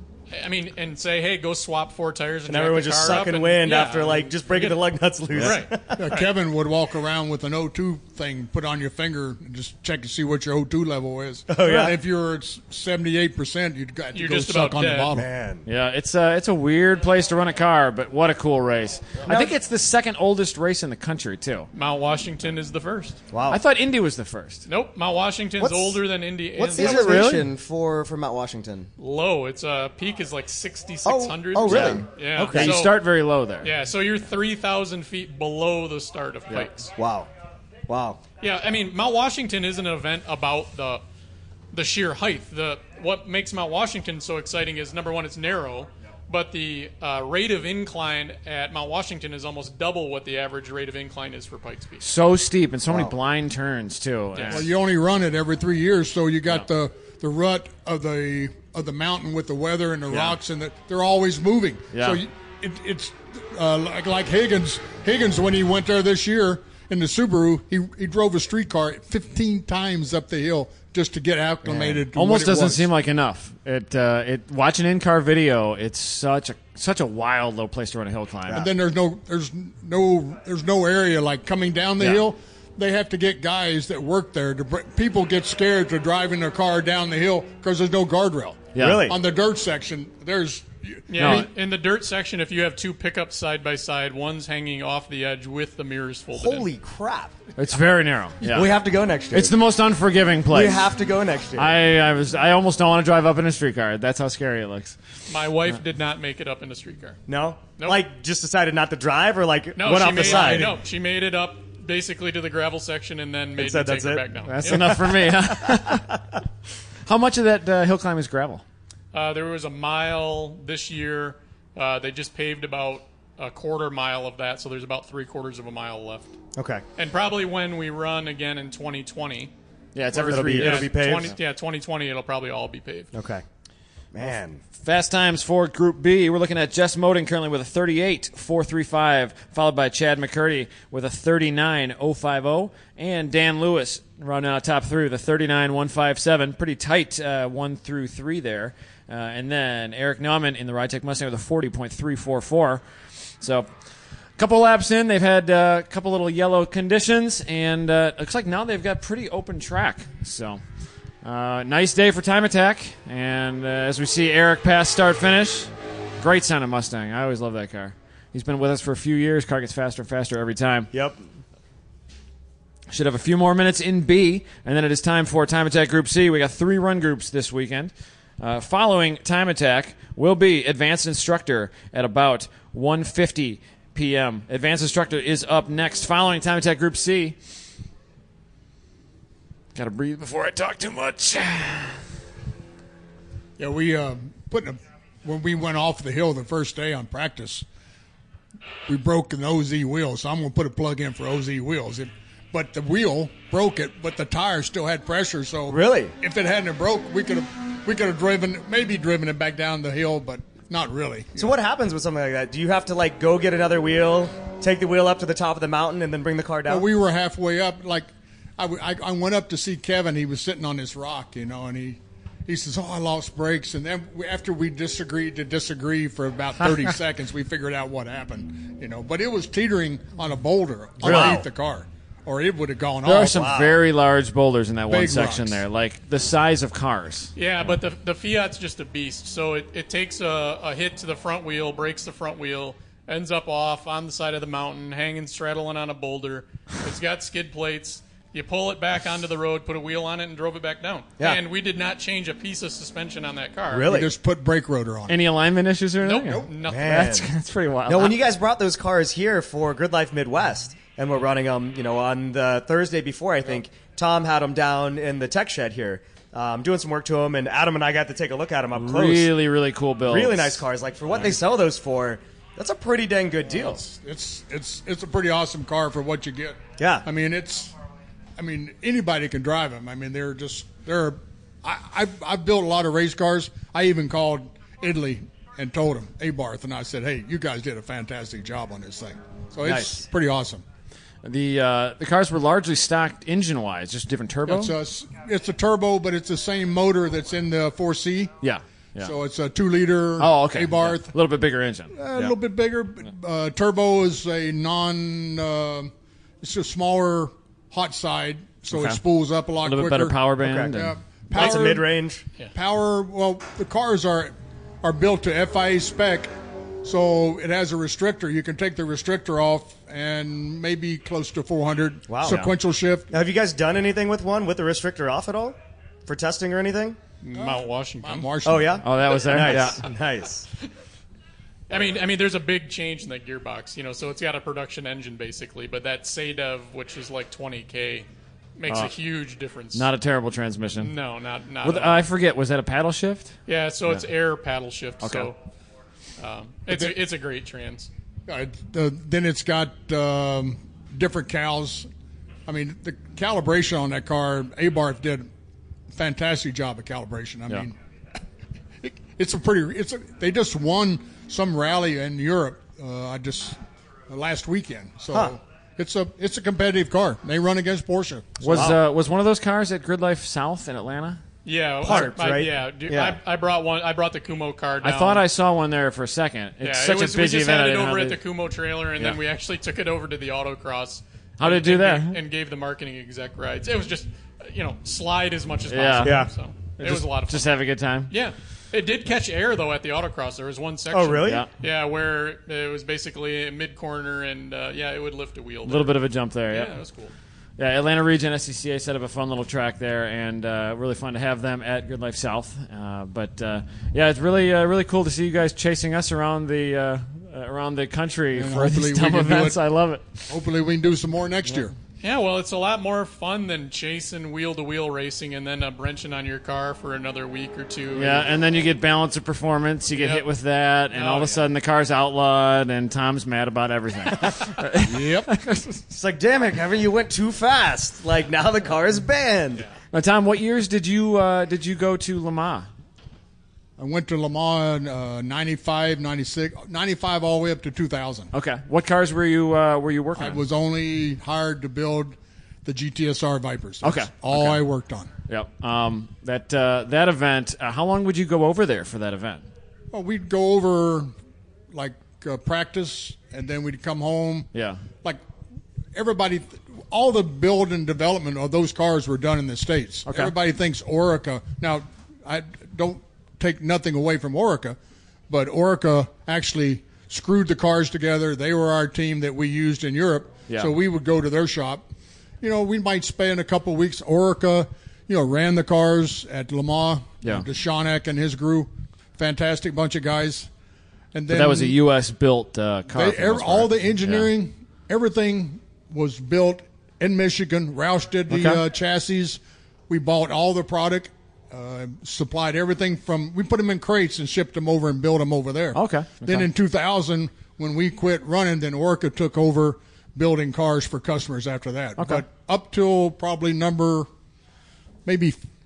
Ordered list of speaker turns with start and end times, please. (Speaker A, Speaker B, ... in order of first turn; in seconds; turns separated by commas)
Speaker A: 0.3-4.8, Speaker B: 2.5-6.0, Speaker A: 5.3-6.3, Speaker C: 5.9-15.3, Speaker B: 11.5-12.0, Speaker A: 14.1-15.1, Speaker B: 15.1-15.7, Speaker D: 15.7-21.7, Speaker B: 19.2-19.5, Speaker A: 21.7-23.2, Speaker B: 23.3-23.6, Speaker D: 23.5-24.6, Speaker A: 24.7-27.4, Speaker B: 25.6-26.0, Speaker B: 26.6-28.9, Speaker D: 26.8-27.4, Speaker A: 29.0-33.0, Speaker B: 31.0-32.7, Speaker D: 31.7-33.7, Speaker A: 33.6-36.9, Speaker B: 37.0-37.3, Speaker B: 37.9-38.2, Speaker A: 38.4-41.0, Speaker A: 41.7-52.0, Speaker D: 52.0-54.6, Speaker B: 52.9-53.1, Speaker A: 54.3-54.6, Speaker C: 54.5-72.9, Speaker D: 60.1-60.4, Speaker D: 61.9-62.2, Speaker D: 71.7-78.7, Speaker C: 78.5-91.5, Speaker D: 88.7-89.1, Speaker B: 88.8-89.2, Speaker A: 91.1-96.7, Speaker D: 91.2-91.5, Speaker B: 96.3-97.3, Speaker D: 97.6-98.8, Speaker B: 98.4-99.5, Speaker D: 99.3-100.8, Speaker B: 100.5-101.7, Speaker D: 101.5-105.0, Speaker A: 105.3-107.2, Speaker B: 107.3-110.8, Speaker A: 109.8-115.1, Speaker C: 110.2-110.7, Speaker B: 113.5-114.2, Speaker D: 114.4-116.2, Speaker B: 115.7-116.2, Speaker D: 117.0-118.6, Speaker A: 119.1-126.3, Speaker B: 126.5-126.8, Speaker A: 127.0-129.5, Speaker D: 129.9-131.0, Speaker A: 130.1-133.1, Speaker B: 130.3-131.3, Speaker B: 133.1-133.4, Speaker B: 134.1-134.6, Speaker D: 134.8-152.8, Speaker D: 153.4-153.7, Speaker D: 154.4-160.6, Speaker D: 161.2-170.9, Speaker B: 170.9-171.2, Speaker D: 172.9-187.4, Speaker D: 189.7-192.0, Speaker C: 193.6-197.7, Speaker C: 198.9-211.5, Speaker B: 205.7-206.1, Speaker B: 211.4-216.8, Speaker C: 216.7-233.5, Speaker B: 231.0-231.5, Speaker D: 231.0-231.4, Speaker D: 233.0-237.3, Speaker B: 233.2-233.8, Speaker C: 234.9-235.6, Speaker A: 237.3-253.9, Speaker B: 253.7-254.1, Speaker C: 253.9-255.2, Speaker D: 255.1-258.1, Speaker A: 256.0-257.1, Speaker B: 256.6-257.3, Speaker B: 257.9-269.3, Speaker D: 268.7-270.6, Speaker B: 270.1-273.8, Speaker C: 273.5-277.7, Speaker B: 276.8-277.1, Speaker C: 278.4-290.6, Speaker D: 291.2-294.7, Speaker C: 294.5-298.3, Speaker D: 298.4-299.1, Speaker C: 299.0-301.1, Speaker D: 300.2-302.3, Speaker C: 301.9-310.2, Speaker D: 308.7-309.0, Speaker D: 309.6-310.9, Speaker B: 310.4-310.7, Speaker C: 310.7-311.9, Speaker B: 311.3-312.2, Speaker C: 312.5-316.3, Speaker C: 316.8-323.1, Speaker B: 322.1-322.4, Speaker D: 322.2-322.5, Speaker B: 323.1-327.0, Speaker A: 327.2-328.3, Speaker C: 327.3-328.8, Speaker B: 328.4-330.5, Speaker D: 328.8-329.8, Speaker A: 331.7-339.9, Speaker D: 339.7-340.9, Speaker A: 340.8-342.0, Speaker D: 341.6-343.3, Speaker A: 343.4-345.4, Speaker D: 345.0-345.3, Speaker A: 346.2-347.9, Speaker C: 348.3-351.9, Speaker C: 352.5-355.3, Speaker C: 355.9-357.8, Speaker C: 358.8-368.8, Speaker D: 368.4-371.2, Speaker B: 368.5-368.8, Speaker A: 371.4-375.2, Speaker B: 371.8-373.2, Speaker D: 374.8-378.2, Speaker A: 376.6-387.5, Speaker D: 381.4-382.2, Speaker D: 385.7-386.2, Speaker B: 386.0-386.3, Speaker D: 386.8-388.1, Speaker A: 388.1-397.1, Speaker B: 390.9-391.4, Speaker D: 391.2-391.5, Speaker D: 395.6-396.7, Speaker D: 397.6-410.3, Speaker C: 408.3-409.6, Speaker C: 410.3-411.7, Speaker A: 412.0-418.3, Speaker D: 417.9-425.8, Speaker A: 419.9-420.2, Speaker A: 420.9-421.4, Speaker C: 424.8-425.3, Speaker B: 425.9-429.6, Speaker D: 429.9-432.7, Speaker C: 433.8-438.3, Speaker D: 438.3-440.4, Speaker C: 440.2-445.1, Speaker D: 443.8-444.6, Speaker D: 445.3-449.4, Speaker C: 449.9-451.1, Speaker C: 451.7-454.5, Speaker D: 454.5-454.8, Speaker C: 455.9-464.8, Speaker D: 460.1-460.3, Speaker C: 465.3-471.8, Speaker C: 472.4-480.5, Speaker C: 481.1-481.8, Speaker D: 481.3-484.3, Speaker C: 482.9-504.1, Speaker D: 488.3-488.6, Speaker D: 495.7-496.5, Speaker D: 502.0-502.2, Speaker C: 505.0-505.4